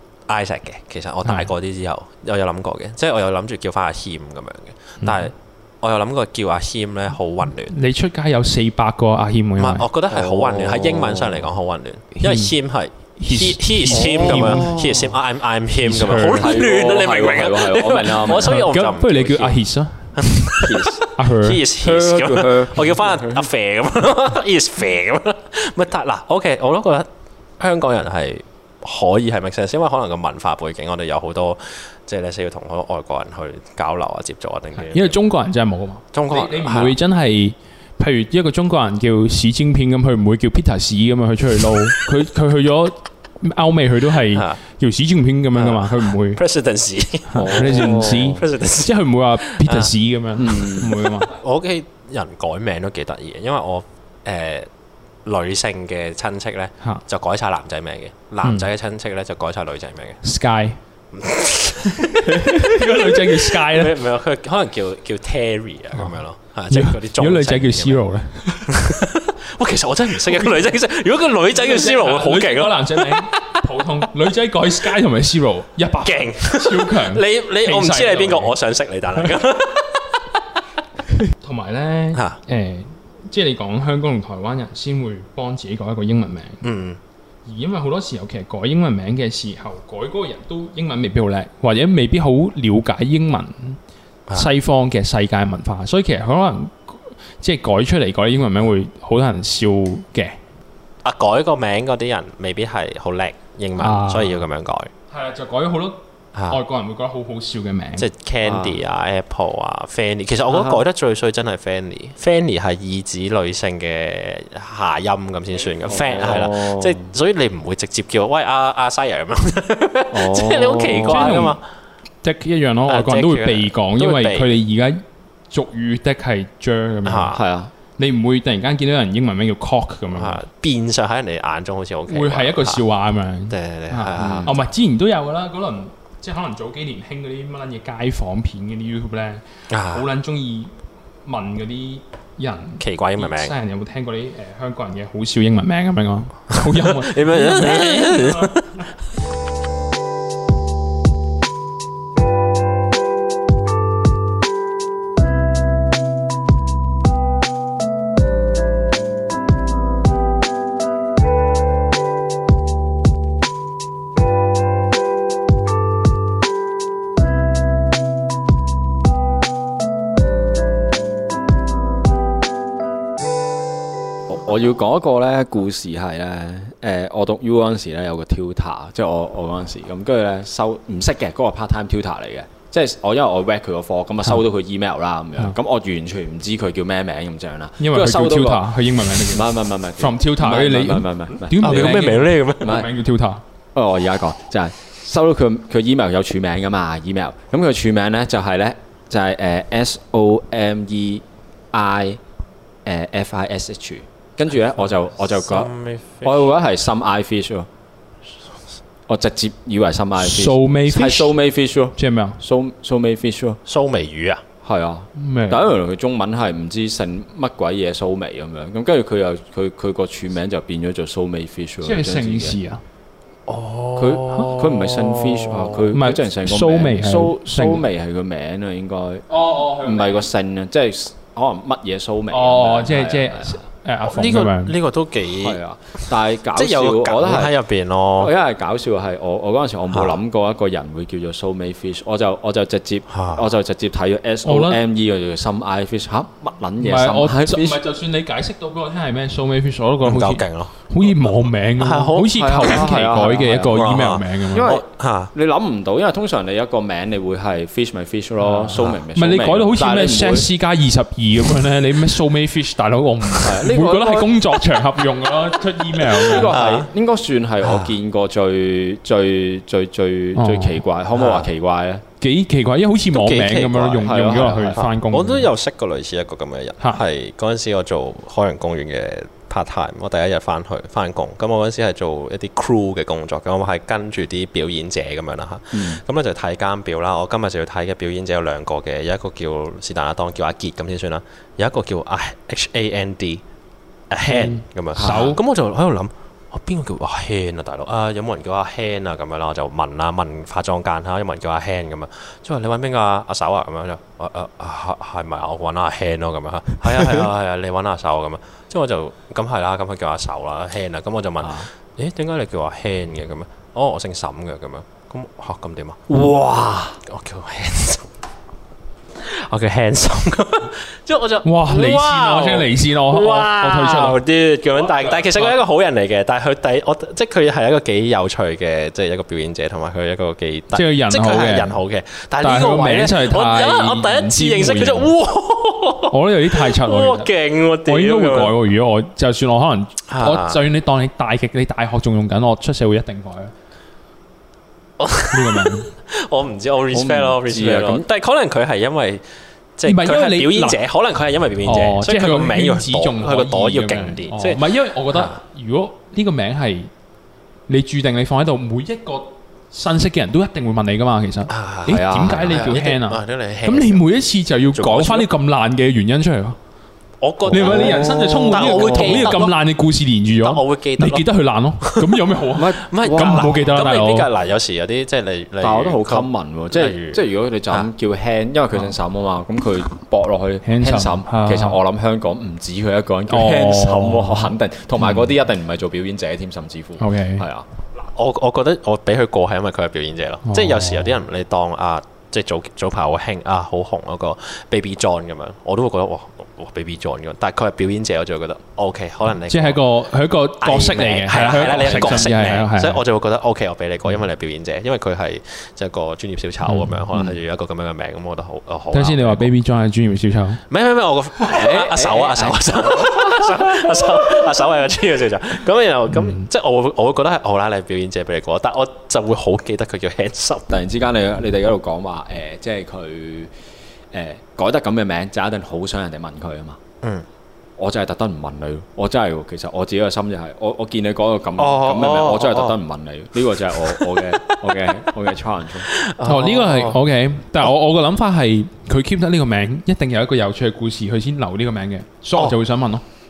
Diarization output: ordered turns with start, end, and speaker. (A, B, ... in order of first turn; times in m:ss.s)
0:00.3-0:07.8 A
0:01.2-0:01.5 B
0:05.0-0:05.3 B
0:07.7-0:09.8 B
0:09.6-0:19.5 A
0:10.1-0:11.5 C
0:12.2-0:12.5 B
0:13.2-0:14.7 B
0:13.9-0:15.1 C
0:15.8-0:16.6 B
0:16.2-0:18.7 C
0:18.4-0:20.1 B
0:20.2-0:27.1 A
0:20.6-0:21.0 C
0:21.1-0:21.6 B
0:21.8-0:23.5 C
0:27.6-0:35.2 A
0:34.8-0:46.4 B
0:36.1-0:37.0 A
0:44.3-0:44.6 A
0:45.6-0:49.9 A
0:47.3-0:51.3 B
0:47.4-0:48.4 C
0:50.4-0:51.0 C
0:50.6-0:54.7 A
0:55.2-1:00.2 A
0:58.4-0:58.7 B
1:00.2-1:00.8 B
1:01.1-1:08.0 A
1:02.0-1:04.0 B
1:06.7-1:09.0 B
1:08.7-1:13.3 A
1:10.3-1:10.6 B
1:11.6-1:18.6 B
1:16.0-1:20.1 A
1:21.4-1:26.6 B
1:26.6-1:27.0 A
1:27.5-1:33.8 B
1:34.3-1:40.4 B
1:41.0-1:44.9 A
1:43.8-1:44.4 B
1:45.1-1:46.0 B
1:46.4-1:46.6 A
1:46.5-1:48.1 B
1:48.0-2:01.6 A
1:48.4-1:48.8 C
1:50.5-1:50.8 C
1:55.9-1:57.0 C
2:00.1-2:01.5 C
2:01.1-2:01.6 B
2:02.2-2:07.4 B
2:02.9-2:04.6 A
2:07.0-2:07.4 A
2:07.3-2:07.7 C
2:08.0-2:10.4 B
2:10.2-2:12.8 A
2:12.1-2:20.7 B
2:13.5-2:14.6 A
2:14.2-2:14.5 C
2:19.7-2:20.0 A
2:21.2-2:28.6 B
2:22.8-2:23.5 A
2:26.6-2:28.7 A
2:54.3-3:12.1 C
3:07.8-3:13.4 B
3:11.6-3:12.8 A
3:12.6-3:12.9 C
3:13.8-3:22.2 C
3:22.8-3:27.7 C
3:25.5-3:26.5 A
3:29.1-3:33.6 C
3:30.2-3:31.4 B
3:32.0-3:32.4 B
3:33.7-3:34.4 A
3:34.6-3:42.6 C
3:35.2-3:35.7 B
3:41.8-3:42.8 B
3:43.5-3:45.8 A
3:44.0-3:53.6 C
3:45.9-3:47.9 B
3:49.3-3:50.3 B
3:52.3-3:54.8 B
3:54.0-3:58.3 A
3:55.3-3:57.6 C
3:58.2-4:07.8 C
4:03.1-4:03.4 A
4:04.4-4:04.8 B
4:06.8-4:14.7 B
4:10.0-4:10.7 A
4:11.8-4:12.9 A
4:12.3-4:13.9 C
4:13.7-4:15.3 A
4:14.5-4:20.5 C
4:18.4-4:26.6 B
4:23.4-4:24.4 C
4:26.0-4:32.0 C
4:26.4-4:26.9 A
4:27.6-4:27.9 A
4:30.4-4:30.8 B
4:31.2-4:31.5 A
4:32.2-4:35.5 B
4:33.1-4:34.2 A
4:34.0-4:34.8 C
4:34.8-4:53.4 A
4:45.7-4:46.0 C
4:54.1-5:16.0 A
4:54.2-4:55.4 B
4:55.0-4:55.3 C
5:06.9-5:07.2 C
5:16.1-5:17.0 C
5:17.1-5:18.0 A
5:19.2-5:38.6 A
5:21.4-5:24.2 B
5:24.8-5:25.6 B
5:30.7-5:31.8 B
5:32.4-5:35.1 B
5:36.1-5:37.3 B
5:37.9-5:43.5 B
5:40.1-5:40.6 A
5:45.0-5:49.2 A
5:45.3-5:45.9 B
5:46.9-5:48.0 C
5:49.8-5:55.4 A
5:49.9-5:50.8 B
5:51.6-5:56.9 B
5:57.7-6:06.6 B
6:01.5-6:04.0 A
6:01.9-6:02.7 C
6:04.7-6:05.3 A
6:07.2-6:09.5 A
6:07.5-6:09.4 C
6:07.5-6:14.3 B
6:10.4-6:11.3 A
6:11.8-6:17.9 A
6:12.6-6:13.6 C
6:15.6-6:27.7 C
6:20.6-6:21.8 B
6:23.3-6:25.2 B
6:27.0-6:27.4 B
6:28.0-6:39.8 A
6:30.5-6:31.1 B
6:39.5-6:43.0 B
6:40.6-6:49.5 A
6:41.8-6:42.2 C
6:46.6-6:47.0 B
6:48.9-6:50.6 B
6:50.7-7:00.7 A
6:51.4-6:54.3 C
6:56.1-6:56.4 B
7:00.7-7:03.5 C
7:04.1-7:06.8 C
7:07.8-7:15.9 C
7:11.6-7:12.8 A
7:13.8-7:14.6 A
7:15.9-7:17.0 A
7:16.2-7:23.0 B